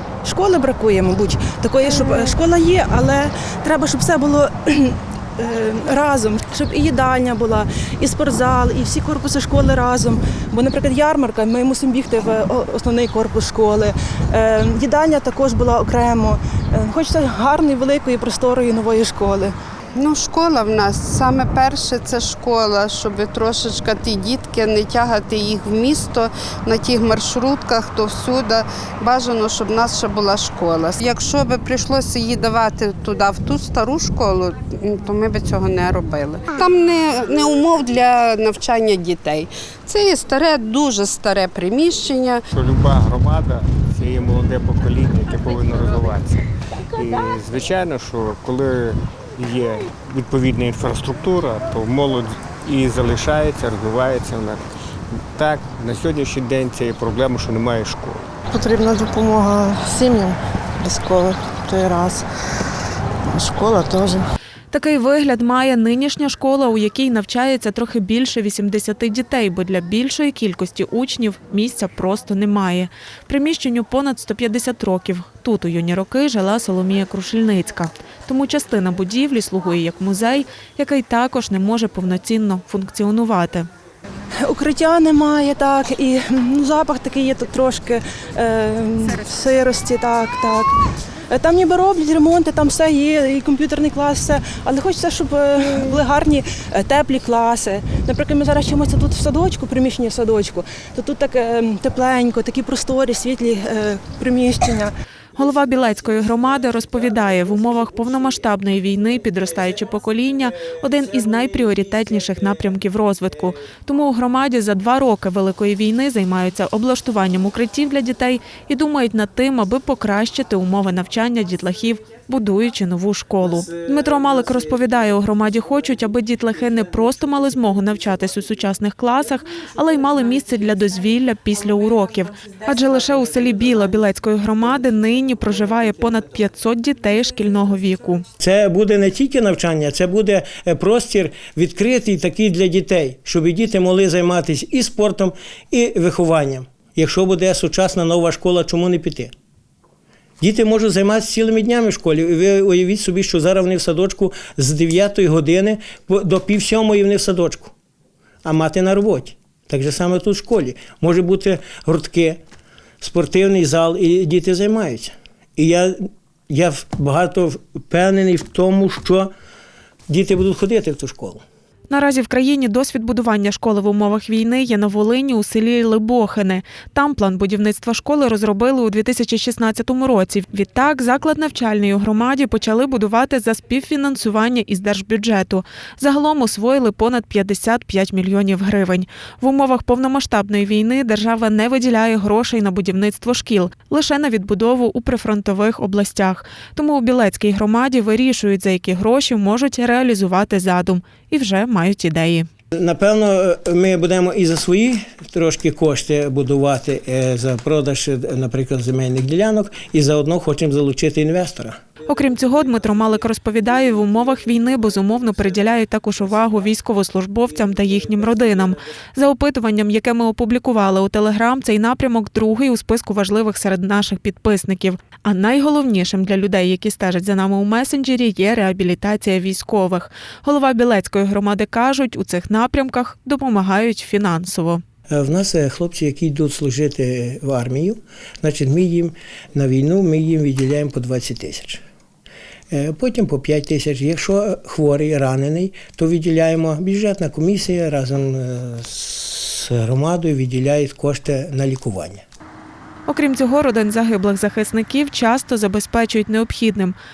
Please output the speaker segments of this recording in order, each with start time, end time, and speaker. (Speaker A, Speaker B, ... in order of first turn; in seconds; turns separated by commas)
Speaker A: 0.2-19.5, Speaker B: 20.0-42.4, Speaker C: 42.5-54.6, Speaker C: 55.3-58.2, Speaker D: 58.5-62.2, Speaker D: 63.3-64.2, Speaker E: 64.7-83.7, Speaker A: 84.4-90.8, Speaker A: 91.3-104.9, Speaker E: 105.3-138.2, Speaker F: 138.4-149.3, Speaker F: 150.4-157.7, Speaker F: 158.4-162.4, Speaker F: 163.0-169.3, Speaker F: 170.1-171.4, Speaker E: 171.9-202.5, Speaker F: 202.7-211.8, Speaker E: 212.1-234.8, Speaker F: 235.1-241.8, Speaker F: 242.7-252.2, Speaker E: 253.1-256.9